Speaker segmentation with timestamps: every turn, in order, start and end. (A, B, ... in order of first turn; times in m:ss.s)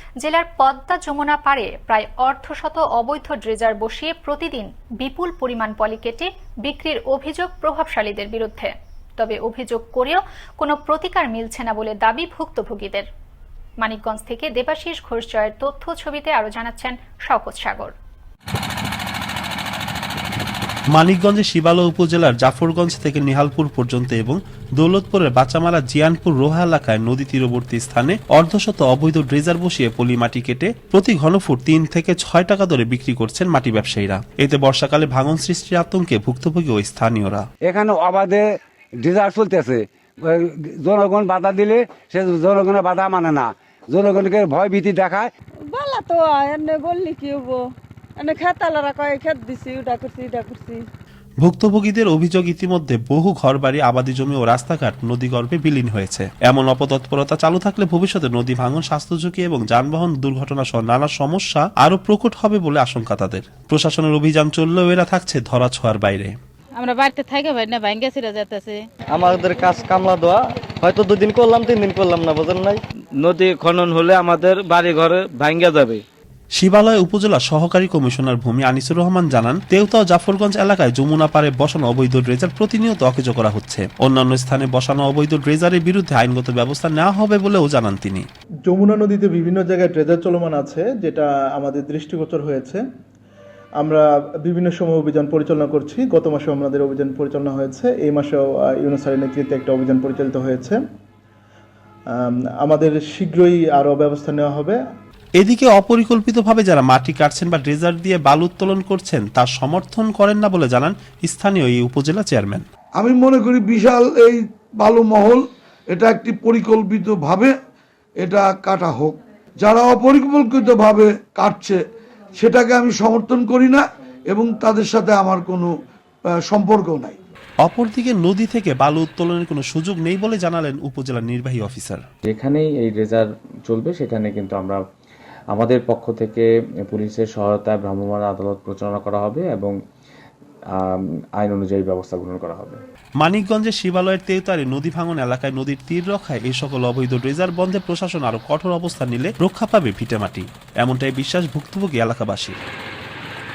0:00.2-0:13.1 A
0:13.8-0:17.9 A
0:20.9-0:37.5 B
0:37.6-0:45.3 C
0:45.7-0:47.6 D
0:48.2-0:50.8 D
0:51.4-1:06.3 B
1:06.8-1:08.8 E
1:09.1-1:12.8 F
1:13.2-1:16.0 G
1:16.6-1:28.3 B
1:28.7-1:32.8 H
1:33.8-1:40.8 H
1:42.1-1:44.8 H
1:45.4-1:52.6 B
1:53.0-1:57.5 I
1:58.2-2:01.8 I
2:02.4-2:05.7 I
2:06.5-2:07.2 I
2:07.6-2:12.0 B
2:12.3-2:14.8 J
2:15.5-2:19.7 J
2:20.8-2:22.8 J
2:23.2-2:32.6 B